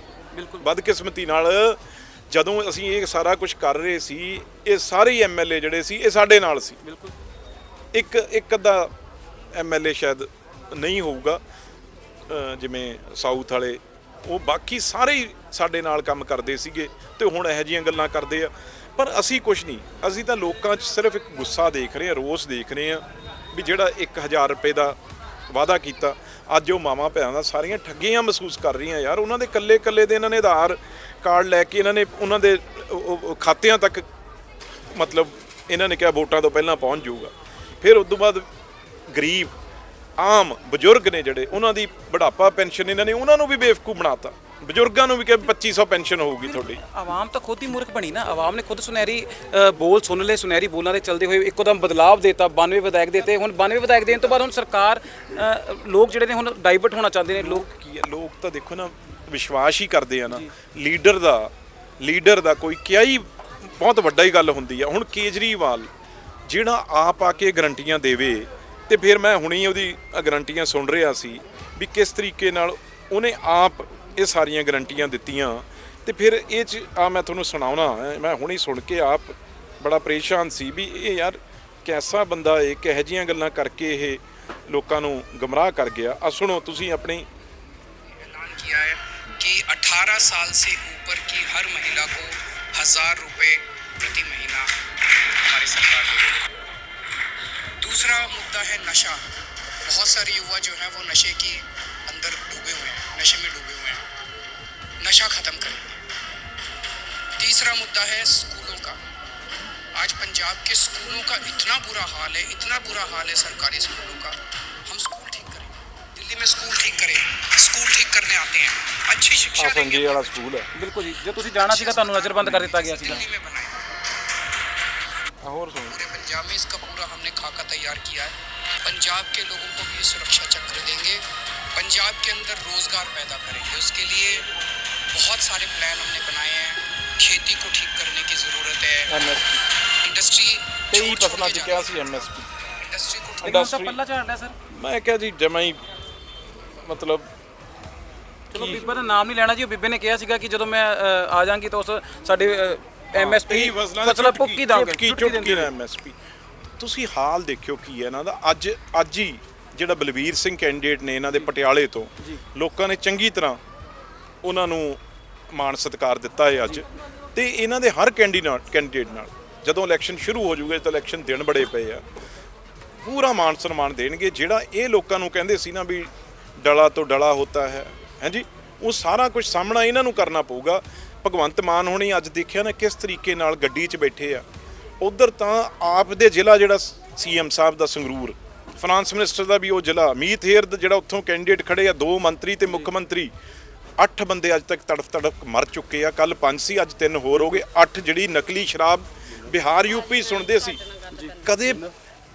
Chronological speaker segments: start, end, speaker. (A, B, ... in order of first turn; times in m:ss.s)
0:00.3-0:00.6 A
0:00.6-0:06.8 B
0:06.8-0:07.1 A
0:07.9-0:08.9 B
0:09.5-0:11.4 B
0:12.3-0:25.0 B
0:25.5-0:34.1 B
0:34.9-0:38.5 B
0:39.1-0:39.5 B
0:40.2-0:46.8 B
0:46.4-0:57.6 A
0:57.4-1:05.9 B
1:06.4-1:27.3 B
1:28.1-1:34.8 C
1:35.3-1:36.4 C
1:37.8-1:39.3 C
1:39.8-1:44.0 C
1:45.0-1:46.0 C
1:47.4-1:49.0 C
1:49.9-2:00.3 C
1:59.6-2:00.7 B
2:00.7-2:03.2 A
2:01.5-2:04.0 C
2:05.4-2:06.0 B
2:05.9-2:14.5 C
2:15.1-2:19.1 C
2:19.1-2:19.6 B
2:20.0-2:22.2 C
2:20.9-2:22.5 B
2:22.9-2:23.7 C
2:23.4-2:24.6 A
2:23.4-2:24.0 B
2:24.7-2:25.8 B
2:26.8-2:27.3 B
2:28.5-2:35.7 A
2:28.5-2:28.8 B
2:33.1-2:36.2 B
2:36.8-2:43.6 B
2:44.4-2:52.0 B
2:53.0-3:04.4 B
3:05.0-3:13.3 B
3:14.0-3:21.9 B
3:21.1-3:21.8 A